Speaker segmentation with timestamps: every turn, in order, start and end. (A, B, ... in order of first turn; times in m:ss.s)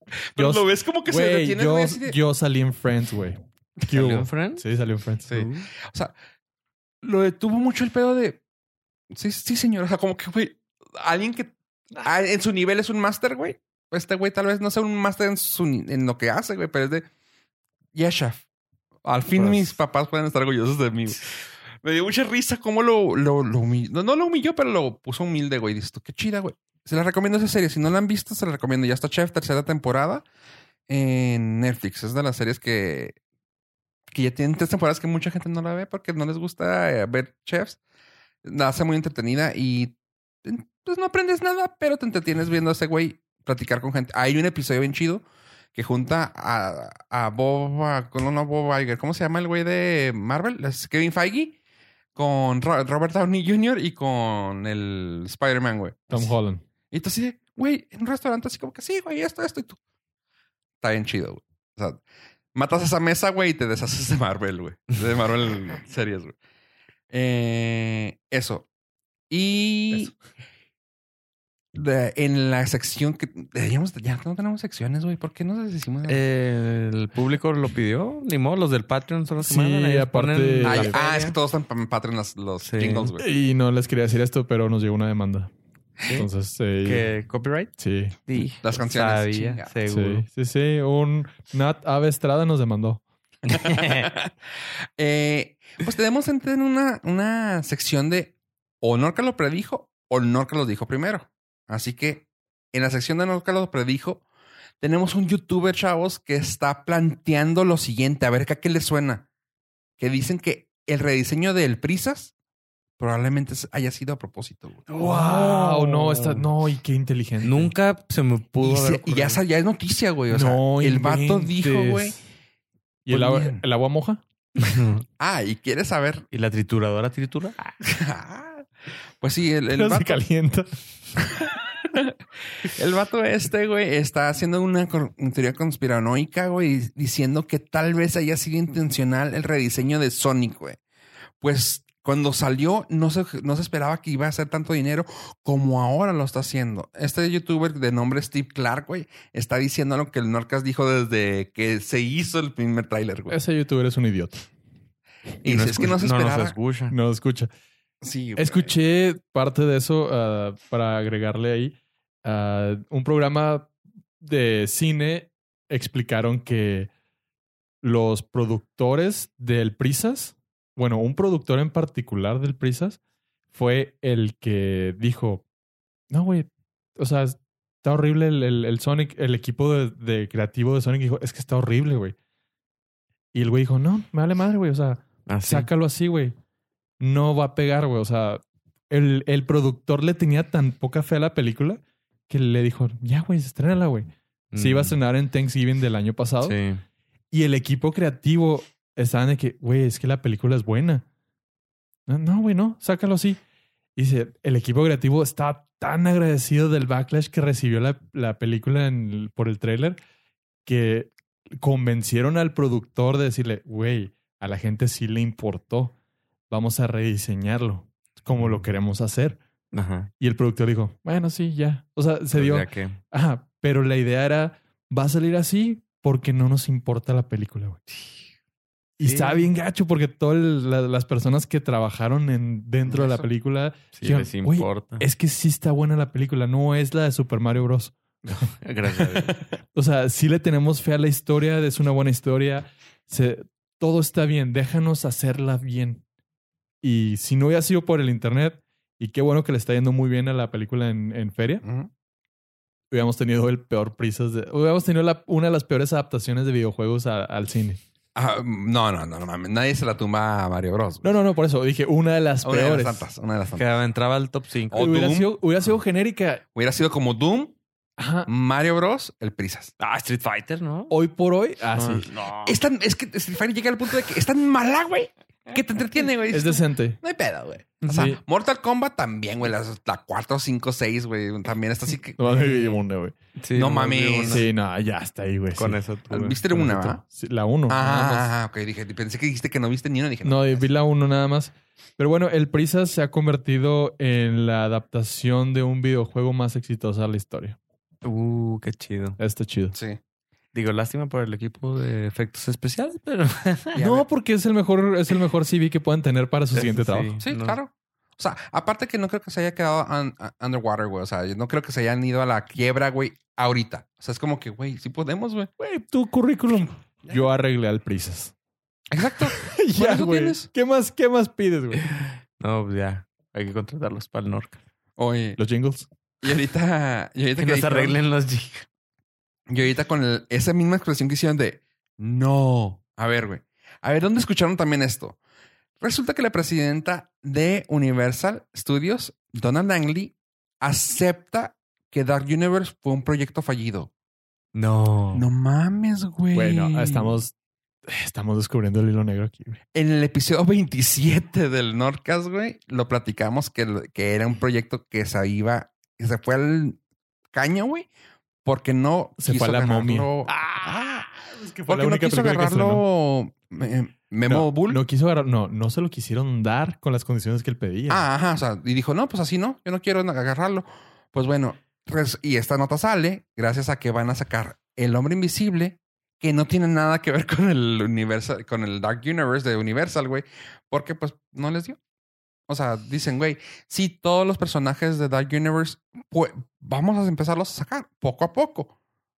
0:00.3-0:02.2 A
0:00.4-0:05.5 B
0:03.9-0:04.6 C
0:05.3-0:06.1 A
0:05.3-0:05.7 C
0:07.0-0:08.4 A
0:09.1-0:17.1 A
0:18.0-0:18.4 A
0:19.0-0:30.2 A
0:30.9-0:33.2 A
0:34.1-0:37.8 A
0:38.4-0:45.2 A
0:45.8-0:51.6 A
0:52.2-0:56.3 A
0:56.1-0:56.6 B
0:56.9-0:59.8 A
1:00.8-1:02.0 A
1:02.6-1:06.3 A
1:07.1-1:08.7 A
1:09.3-1:10.1 A
1:11.7-1:16.2 A
1:16.1-1:21.4 C
1:19.4-1:21.0 B
1:20.6-1:23.2 A
1:22.6-1:23.1 C
1:23.2-1:25.5 B
1:26.1-1:27.1 B
1:26.8-1:27.7 C
1:27.8-1:28.2 B
1:28.3-1:30.2 C
1:28.6-1:29.7 A
1:29.9-1:33.0 B
1:33.4-1:34.1 C
1:33.5-1:34.3 A
1:35.0-1:44.2 A
1:44.8-1:49.3 A
1:50.0-1:52.3 A
1:53.0-1:54.9 A
1:54.9-1:57.7 B
1:55.0-1:56.4 C
1:57.4-1:59.4 C
1:58.6-2:02.2 A
2:00.3-2:02.2 B
2:03.1-2:04.2 B
2:03.1-2:03.6 A
2:04.6-2:05.0 C
2:05.2-2:06.3 A
2:06.3-2:07.7 C
2:07.8-2:08.7 A
2:09.2-2:10.2 A
2:09.7-2:10.8 B
2:11.2-2:20.8 A
2:21.4-2:33.4 A
2:33.3-2:34.5 B
2:35.4-2:36.6 A
2:35.4-2:37.0 C
2:36.9-2:37.5 B
2:38.0-2:38.7 A
2:38.4-2:46.9 B
2:47.8-2:53.0 B
2:53.5-2:55.4 B
2:56.1-3:02.2 B
3:03.3-3:06.4 B
3:05.3-3:05.7 C
3:07.0-3:16.6 B
3:14.5-3:15.0 C
3:16.4-3:16.8 C
3:17.3-3:21.0 B
3:22.1-3:23.4 B
3:24.0-3:30.0 B
3:30.7-3:36.0 B
3:36.5-3:39.4 B
3:38.4-3:38.7 C
3:39.7-3:40.1 C
3:40.2-3:47.8 B
3:42.3-3:43.0 C
3:49.0-3:59.2 B
3:49.0-3:49.5 C
3:53.9-3:55.1 C
3:58.3-3:59.4 C
3:59.7-4:06.0 B
4:06.8-4:11.6 B
4:11.6-4:11.9 A
4:12.9-4:17.8 B
4:18.2-4:21.1 A
4:21.0-4:23.1 B
4:22.4-4:23.7 A
4:23.5-4:24.8 C
4:24.7-4:25.4 A
4:24.7-4:26.4 B
4:26.6-4:27.6 A
4:28.0-4:28.3 B
4:28.3-4:29.7 A
4:29.8-4:30.9 C
4:30.9-4:32.1 B
4:31.8-4:32.6 C
4:32.4-4:42.5 A
4:36.3-4:37.0 B
4:37.8-4:38.1 C
4:37.9-4:38.2 B
4:42.2-4:43.2 B
4:43.4-4:44.4 C
4:43.6-4:44.5 A
4:44.3-4:45.8 B
4:45.6-4:46.4 C
4:46.1-4:47.0 A
4:46.5-4:48.3 B
4:47.7-4:50.6 A
4:50.2-4:57.6 B
4:58.0-4:59.2 C
4:59.2-4:59.8 B
4:59.7-5:00.0 A
5:00.5-5:03.8 C
5:03.8-5:04.1 A
5:03.8-5:07.1 B
5:06.5-5:07.6 C
5:07.2-5:15.5 A
5:15.6-5:18.3 B
5:18.9-5:20.5 A
5:19.2-5:21.9 B
5:21.7-5:24.6 C
5:25.0-5:25.4 A
5:25.4-5:25.9 B
5:26.2-5:28.0 A
5:27.4-5:28.7 C
5:29.5-5:35.2 A
5:35.8-5:43.9 A
5:44.5-5:45.3 C
5:45.2-5:47.2 A
5:46.3-5:47.3 B
5:47.9-5:49.6 B
5:49.8-5:56.8 A
5:57.3-5:57.9 A
5:58.4-6:01.0 A
5:59.2-6:02.8 B
6:01.7-6:04.8 A
6:04.3-6:08.1 B
6:07.9-6:21.8 A
6:22.5-6:28.7 A